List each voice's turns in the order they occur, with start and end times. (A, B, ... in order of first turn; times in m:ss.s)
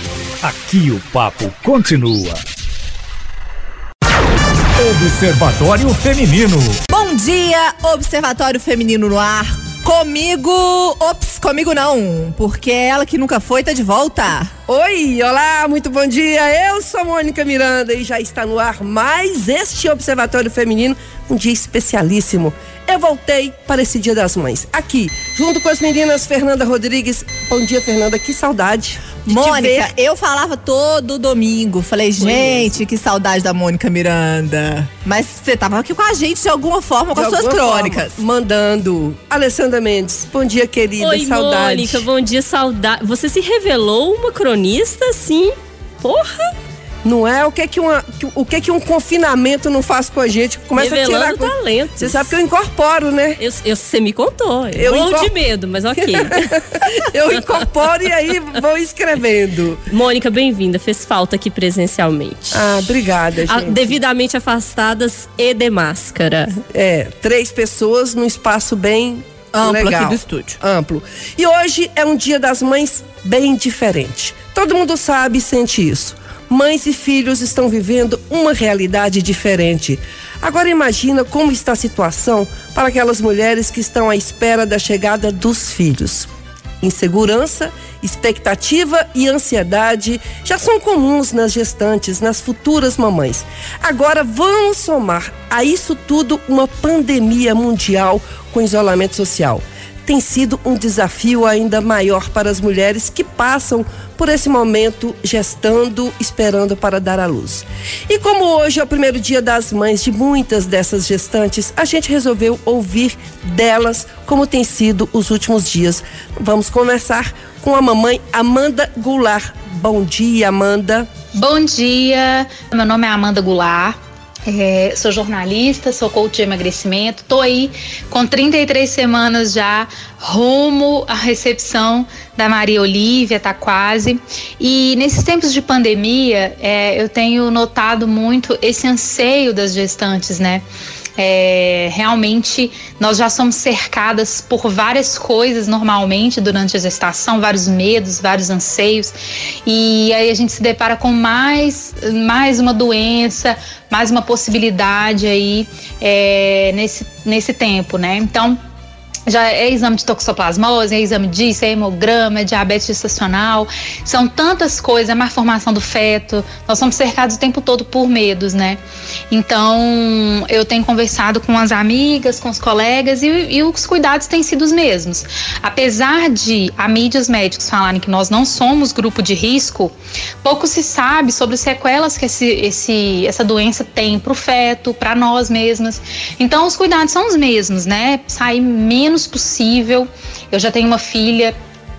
0:00.4-0:02.4 A
0:04.8-0:06.8 A
0:06.9-0:14.5 B
0:14.7-0:29.9 C
0:29.3-0:38.2 B
0:32.2-0:32.8 C
0:37.1-0:42.0 C
0:41.0-0:46.5 D
0:47.0-0:53.4 C
0:50.8-0:52.3 D
0:53.4-0:56.8 D
0:54.7-0:55.3 C
0:56.0-0:59.8 C
0:59.9-1:02.9 D
1:02.5-1:03.9 C
1:03.4-1:06.6 D
1:06.7-1:26.3 C
1:09.5-1:10.6 B
1:26.8-2:01.1 C
2:01.3-2:20.6 E
2:21.2-2:38.6 E
2:39.3-3:11.6 E